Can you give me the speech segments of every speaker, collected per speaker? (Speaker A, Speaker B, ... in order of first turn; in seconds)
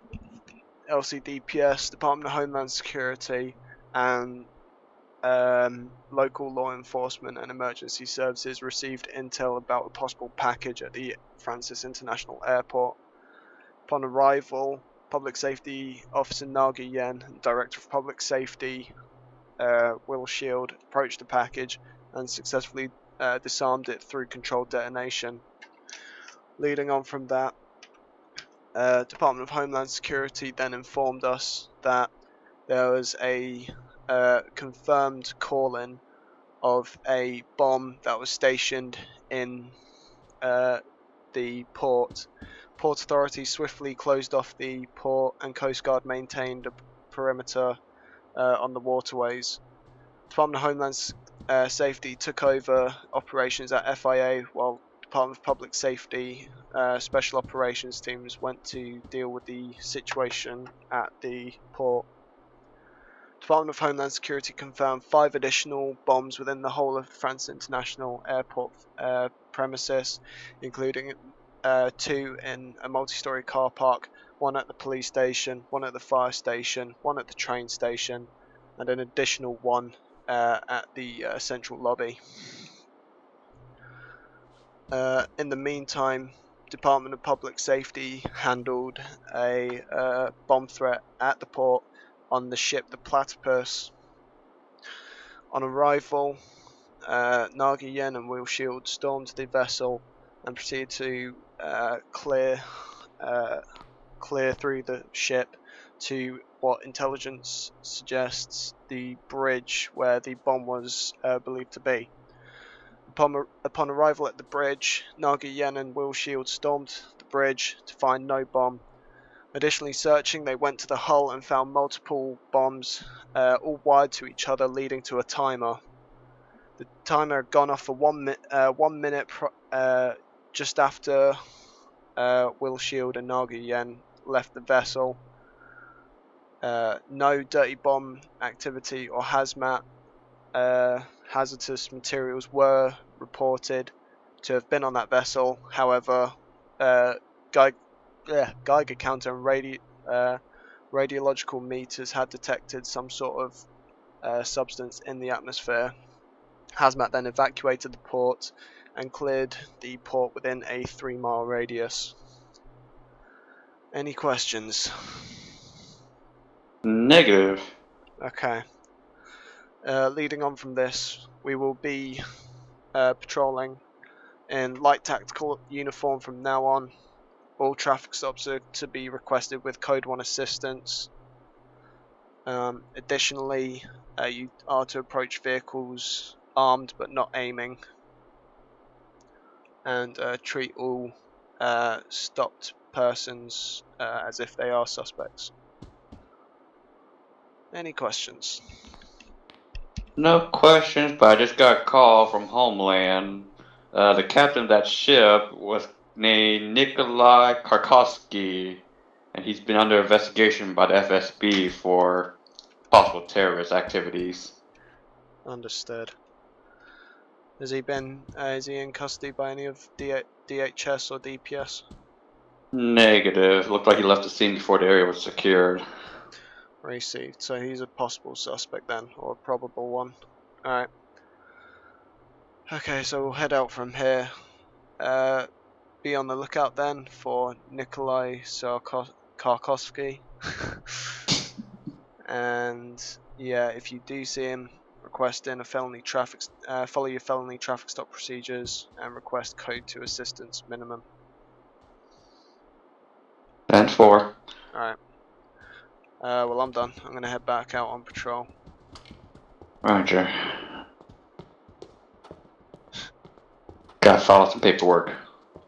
Speaker A: 0.9-4.5, 5.2-13.0, 13.9-18.9, 19.6-25.4, 26.6-27.5, 28.7-32.1, 32.7-36.0, 36.6-39.7, 40.4-40.8, 41.3-47.8, 48.3-49.6, 50.3-62.0, 63.4-82.6, 84.9-93.9, 95.5-96.4, 97.0-103.6, 104.2-112.1, 113.1-118.8, 119.5-125.8, 126.8-131.4, 132.2-135.2, 136.6-139.8, 140.5-150.4, 150.9-153.7, 154.2-155.9, 156.8-162.1, 163.9-165.3, 168.2-168.6, 169.8-172.2, 172.9-173.8, 174.5-176.9, 177.6-181.1, 182.4-187.8, 189.8-195.5, 197.7-198.6, 215.4-216.1, 217.6-221.8, 226.8-230.9, 232.7-234.3, 235.0-235.5, 236.0-240.8, 242.3-251.0, 256.2-258.5
Speaker B: 166.8-167.7, 200.2-208.8, 209.3-212.3, 212.9-214.5, 222.7-225.8, 253.7-254.3, 259.8-260.8, 264.0-265.2